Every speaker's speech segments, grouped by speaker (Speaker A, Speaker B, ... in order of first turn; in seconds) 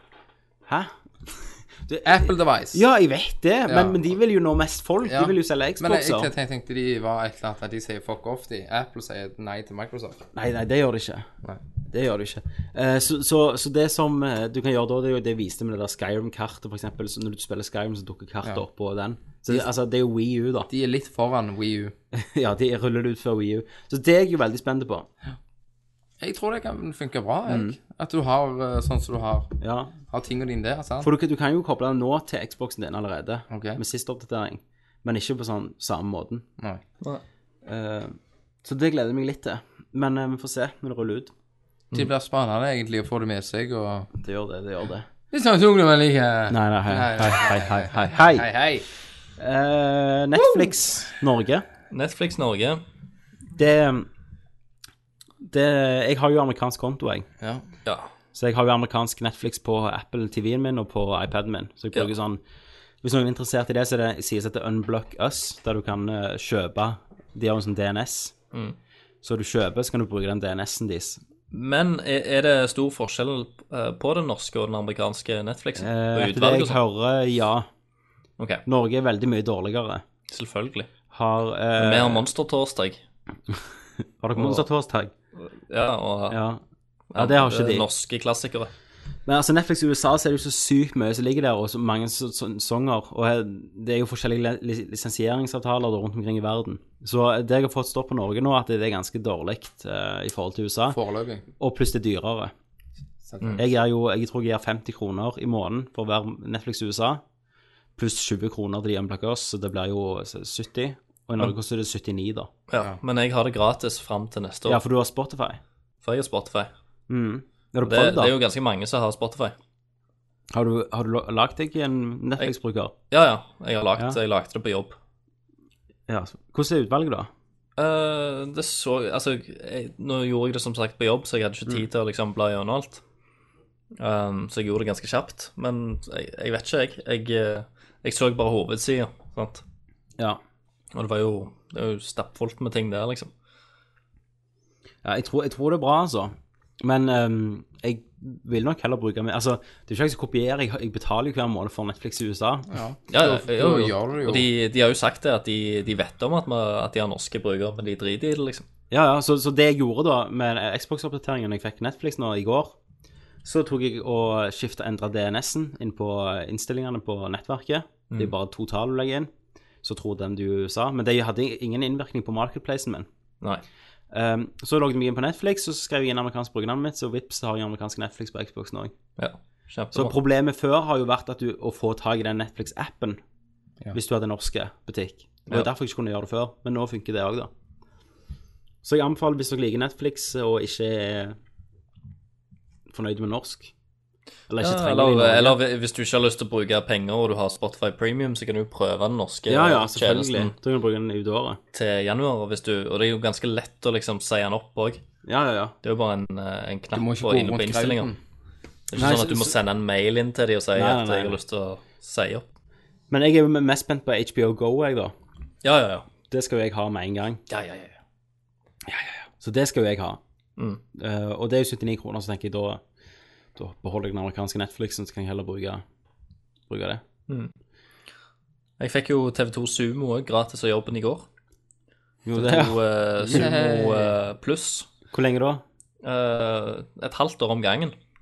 Speaker A: 0.7-6.3, 10.3-11.3, 11.9-20.7, 22.1-25.1, 27.5-27.8, 29.6-29.9, 31.0-36.5, 37.6-41.3, 44.2-45.1, 46.5-48.5, 49.4-51.6, 53.6-54.1, 55.4-57.3, 58.3-62.4, 63.0-68.3, 69.2-71.2, 75.8-77.7, 78.7-80.0, 81.1-82.3, 84.2-85.1, 86.3-86.6, 87.2-87.9, 89.3-101.0, 101.6-102.5, 103.6-107.2, 108.0-112.5, 114.7-115.6, 117.1-118.3, 120.5-122.9, 126.1-127.3, 145.0-152.7, 158.9-162.8, 163.4-169.3, 169.8-173.1, 174.1-178.9, 179.9-183.2, 183.9-187.5, 188.8-191.4, 192.9-193.7, 194.5-195.6, 199.5-201.6, 205.2-205.8, 209.0-209.6, 210.8-211.4, 213.1-215.1, 216.3-217.4, 218.9-220.2, 220.9-222.8, 223.6-225.8, 226.7-227.0, 232.2-234.1, 235.1-235.6
Speaker B: 2.0-2.8, 3.7-4.0, 5.0-10.3, 20.7-21.9, 26.2-29.6, 30.1-31.1, 33.5-33.8, 41.9-44.1, 45.3-48.9, 100.9-101.5, 103.3-103.6, 152.7-154.5, 206.9-208.2, 233.2-234.0
Speaker C: 51.9-52.8, 71.5-76.8, 78.4-78.6, 80.3-80.9, 81.8-83.0, 84.3-84.7, 85.4-86.4, 87.1-88.7, 112.7-114.8, 116.0-116.7, 117.8-119.6, 123.1-125.0, 127.8-133.0, 134.0-139.6, 140.9-143.3, 153.1-158.7, 179.2-180.2, 194.6-200.6, 201.7-205.0, 205.8-208.1, 208.9-212.4, 215.6-216.1, 217.5-218.0, 228.8-231.3, 232.3-234.9, 236.0-237.9